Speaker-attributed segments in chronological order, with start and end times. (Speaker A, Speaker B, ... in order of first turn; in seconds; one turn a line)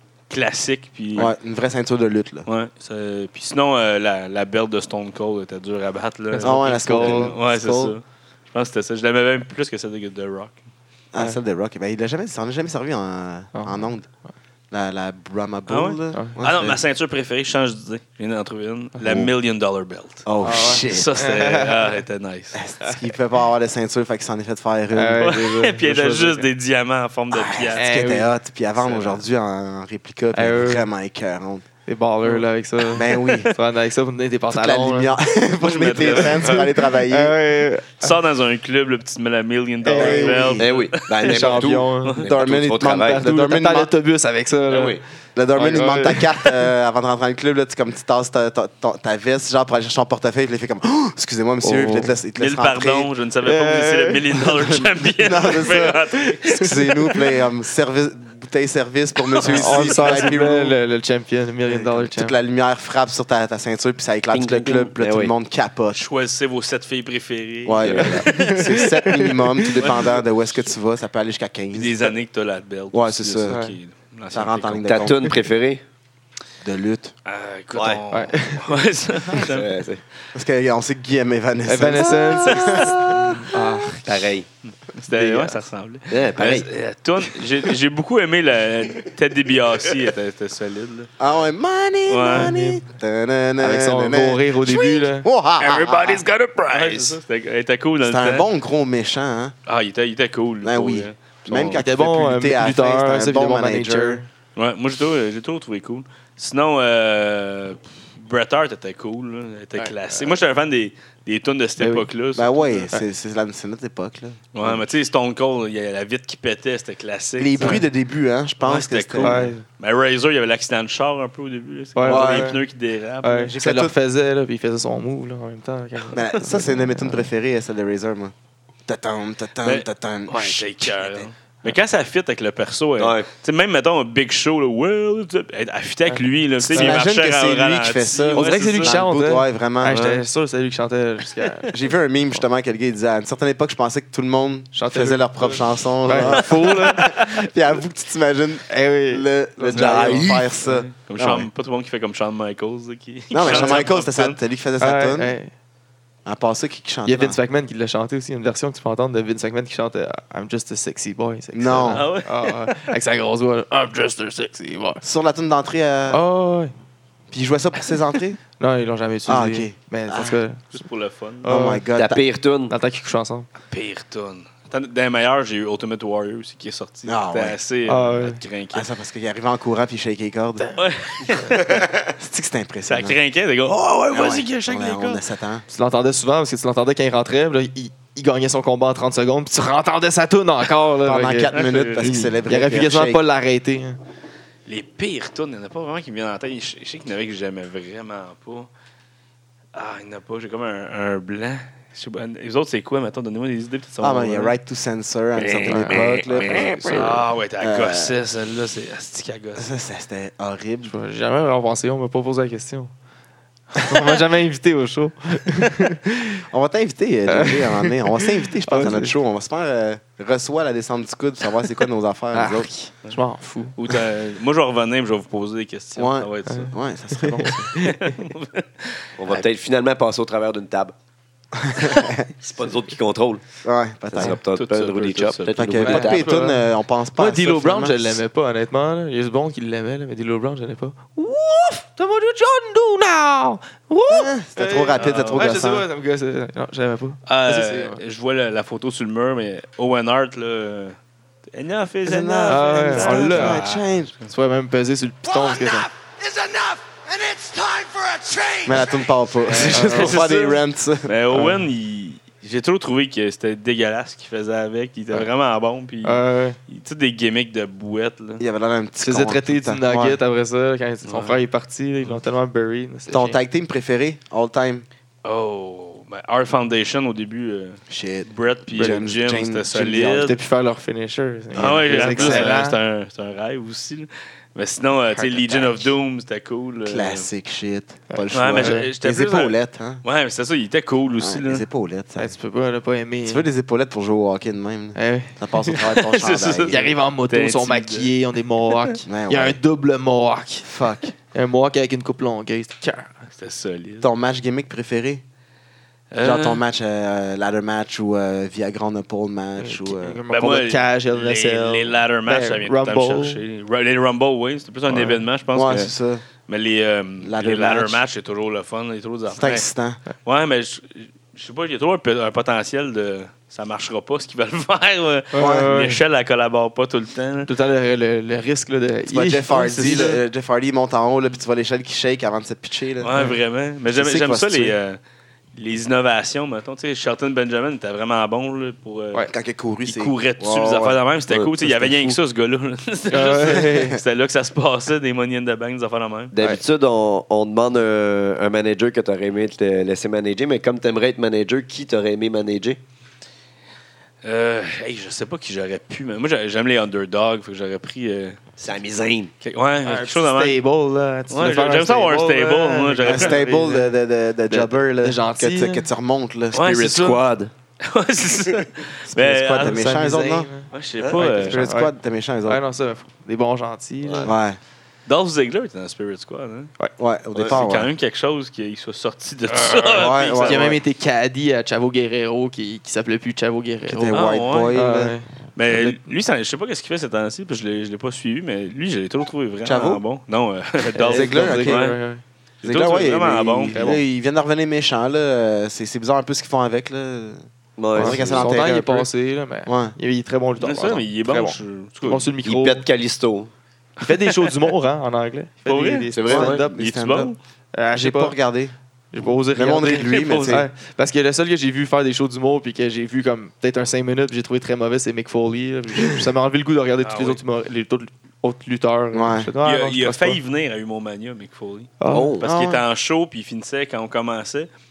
Speaker A: 0.3-1.3
Speaker B: 1.1-2.5
Speaker A: 2.5-10.6
Speaker C: 6.3-7.3
Speaker B: 6.4-7.9
Speaker B: 11.1-14.1
Speaker C: 13.5-13.9
Speaker B: 14.7-16.8
Speaker A: 15.7-22.6
Speaker B: 19.0-19.3
Speaker B: 20.2-21.2
Speaker C: 20.4-21.9
Speaker B: 22.5-25.4
Speaker C: 24.9-26.4
Speaker A: 25.2-27.8
Speaker B: 27.3-31.6
Speaker C: 27.7-28.3
Speaker C: 30.3-30.9
Speaker C: 31.9-35.1
Speaker B: 32.9-33.5
Speaker A: 33.0-33.5
Speaker B: 34.5-37.4
Speaker A: 35.6-36.7
Speaker C: 36.1-38.1
Speaker A: 38.0-42.3
Speaker C: 39.8-40.6
Speaker B: 39.9-40.7
Speaker D: 40.6-43.2
Speaker C: 41.2-42.2
Speaker B: 42.2-43.9
Speaker C: 42.9-45.0
Speaker D: 44.7-45.0
Speaker B: 45.3-53.1
Speaker C: 45.5-46.6
Speaker C: 51.6-52.1
Speaker A: 52.4-56.9
Speaker C: 53.4-54.5
Speaker B: 54.7-60.8
Speaker A: 59.2-60.4
Speaker C: 59.4-62.3
Speaker B: 61.7-66.0
Speaker D: 64.3-65.3
Speaker A: 65.9-68.9
Speaker B: 67.6-72.1
Speaker D: 67.8-68.3
Speaker C: 68.0-69.7
Speaker A: 69.8-70.2
Speaker A: 71.7-75.2
Speaker B: 72.9-73.6
Speaker C: 73.5-73.8
Speaker B: 74.3-75.3
Speaker D: 74.8-75.8
Speaker B: 76.6-77.1
Speaker A: 77.2-79.7
Speaker D: 77.7-78.0
Speaker C: 78.1-78.7
Speaker D: 79.3-80.0
Speaker B: 80.3-83.5
Speaker C: 81.7-84.3
Speaker A: 82.5-83.4
Speaker D: 84.0-84.5
Speaker A: 84.9-91.1
Speaker C: 85.1-85.6
Speaker D: 86.1-86.7
Speaker B: 91.2-96.2
Speaker A: 92.1-92.6
Speaker C: 92.3-92.8
Speaker C: 93.6-97.2
Speaker A: 96.7-98.5
Speaker B: 98.0-99.5
Speaker A: 99.7-101.8
Speaker B: 100.6-104.2
Speaker C: 101.8-104.3
Speaker A: 104.5-112.9
Speaker C: 109.8-110.2
Speaker C: 111.8-112.1
Speaker B: 112.3-114.9
Speaker A: 114.5-117.8
Speaker B: 117.4-119.5
Speaker A: 118.6-123.5
Speaker C: 119.2-119.6
Speaker C: 121.9-122.6
Speaker B: 122.0-122.5
Speaker C: 123.2-127.2
Speaker B: 123.5-123.9
Speaker B: 126.1-128.3
Speaker B: 128.9-131.3
Speaker A: 129.6-138.9
Speaker D: 133.0-133.3
Speaker B: 136.6-140.0
Speaker C: 136.7-137.0
Speaker C: 138.3-141.9
Speaker A: 139.9-140.2
Speaker B: 141.7-151.5
Speaker C: 144.7-147.1
Speaker A: 146.1-147.4
Speaker C: 148.7-150.4
Speaker A: 149.7-154.4
Speaker B: 153.3-155.3
Speaker C: 153.4-153.8
Speaker C: 154.8-155.5
Speaker B: 156.2-157.4
Speaker C: 157.1-165.0
Speaker B: 161.5-162.0
Speaker A: 161.9-162.8
Speaker B: 165.0-166.2
Speaker C: 166.1-166.7
Speaker B: 167.3-168.4
Speaker C: 168.6-170.6
Speaker B: 169.3-170.4
Speaker A: 170.7-171.5
Speaker C: 171.4-171.9
Speaker B: 171.4-172.2
Speaker D: 171.9-172.7
Speaker C: 172.7-173.5
Speaker A: 173.7-178.9
Speaker B: 177.1-177.6
Speaker C: 177.8-178.4
Speaker B: 178.7-180.7
Speaker A: 180.7-182.1
Speaker B: 181.7-183.2
Speaker A: 182.9-185.2
Speaker B: 184.1-185.6
Speaker C: 185.7-194.0
Speaker B: 191.0-193.2
Speaker A: 191.5-192.2
Speaker A: 194.7-198.7
Speaker A: 199.7-204.5
Speaker B: 204.0-208.1
Speaker D: 205.4-206.9
Speaker A: 205.6-205.8
Speaker C: 205.7-207.2
Speaker A: 206.9-209.7
Speaker B: 209.6-210.9
Speaker C: 210.8-212.9
Speaker C: 213.7-216.4
Speaker B: 216.5-222.7
Speaker C: 217.3-219.1
Speaker C: 222.3-223.7
Speaker A: 223.8-226.7
Speaker B: 225.9-227.7
Speaker C: 226.5-228.1
Speaker A: 227.7-229.4
Speaker D: 229.2-230.9
Speaker B: 231.6-232.3
Speaker D: 232.4-233.4
Speaker B: 233.6-234.4
Speaker D: 234.1-236.3
Speaker A: 234.2-235.7
Speaker B: 235.6-238.2
Speaker C: 235.8-248.0
Speaker B: 244.1-245.8
Speaker A: 244.9-245.5
Speaker A: 247.3-250.9
Speaker A: 251.5-253.9
Speaker B: 252.0-254.1
Speaker C: 252.5-253.7
Speaker C: 254.2-255.9
Speaker A: 255.4-268.4
Speaker B: 258.6-261.1
Speaker C: 259.7-260.2
Speaker C: 261.3-261.6
Speaker C: 266.0-266.6
Speaker B: 268.4-270.2
Speaker C: 269.0-273.4
Speaker A: 271.0-271.4
Speaker B: 273.1-274.9
Speaker A: 275.2-280.4
Speaker B: 277.9-280.3
Speaker C: 280.2-282.8
Speaker A: 281.5-287.3
Speaker B: 281.6-282.6
Speaker C: 285.1-285.9
Speaker B: 286.8-290.0
Speaker C: 288.1-288.9
Speaker A: 288.3-291.6
Speaker B: 291.2-292.3
Speaker C: 292.1-293.4
Speaker B: 293.2-296.8
Speaker C: 294.9-295.8
Speaker A: 295.8-298.1
Speaker C: 296.7-300.7
Speaker B: 299.1-299.6
Speaker B: 300.6-301.1
Speaker C: 301.3-303.2
Speaker A: 303.4-304.1
Speaker B: 304.0-305.2
Speaker A: 306.1-306.6
Speaker B: 306.2-310.2
Speaker C: 309.6-313.4
Speaker A: 310.3-315.9
Speaker C: 314.9-315.2
Speaker B: 315.5-316.2
Speaker A: 316.5-319.6
Speaker B: 317.2-318.0
Speaker B: 319.3-320.0
Speaker A: 320.2-327.5
Speaker C: 325.3-326.0
Speaker B: 325.4-325.7
Speaker C: 327.5-330.2
Speaker B: 329.1-333.2
Speaker A: 333.0-335.0
Speaker B: 333.9-334.8
Speaker A: 335.5-339.2
Speaker B: 339.3-341.0
Speaker A: 339.8-346.3
Speaker B: 341.6-342.1
Speaker C: 343.1-344.0
Speaker B: 343.4-344.0
Speaker D: 346.3-352.8
Speaker A: 354.2-358.4
Speaker D: 358.6-359.3
Speaker A: 359.4-360.6
Speaker C: 359.8-364.0
Speaker A: 361.3-363.4
Speaker B: 363.0-366.6
Speaker C: 364.5-365.9
Speaker A: 366.5-367.2
Speaker D: 366.5-367.5
Speaker A: 367.8-371.6
Speaker B: 369.1-370.5
Speaker C: 369.6-370.7
Speaker D: 371.0-371.5
Speaker B: 371.1-372.6
Speaker C: 371.5-371.9
Speaker C: 372.4-374.4
Speaker D: 374.0-374.3
Speaker B: 374.2-374.6
Speaker A: 375.1-376.7
Speaker B: 377.0-377.9
Speaker D: 377.3-377.6
Speaker A: 377.4-380.8
Speaker C: 379.5-384.2
Speaker B: 380.0-380.8
Speaker B: 383.9-385.1
Speaker A: 384.1-384.8
Speaker C: 384.7-385.3
Speaker A: 385.6-392.0
Speaker B: 385.7-385.9
Speaker B: 389.6-390.0
Speaker C: 390.9-392.2
Speaker B: 391.1-391.9
Speaker A: 392.6-393.9
Speaker B: 392.6-399.1
Speaker C: 393.7-394.0
Speaker D: 397.8-398.5
Speaker C: 397.9-402.9
Speaker B: 399.6-399.9
Speaker A: 400.6-402.3
Speaker D: 402.4-403.5
Speaker C: 404.0-406.7
Speaker A: 405.6-407.4
Speaker D: 406.1-406.6
Speaker B: 406.2-407.3
Speaker C: 407.7-408.4
Speaker B: 407.9-408.7
Speaker C: 409.1-420.4
Speaker B: 409.5-410.7
Speaker A: 410.0-410.6
Speaker A: 417.0-417.4
Speaker B: 419.1-419.5
Speaker A: 419.6-424.7
Speaker C: 422.0-422.4
Speaker D: 422.1-422.4
Speaker B: 422.4-422.8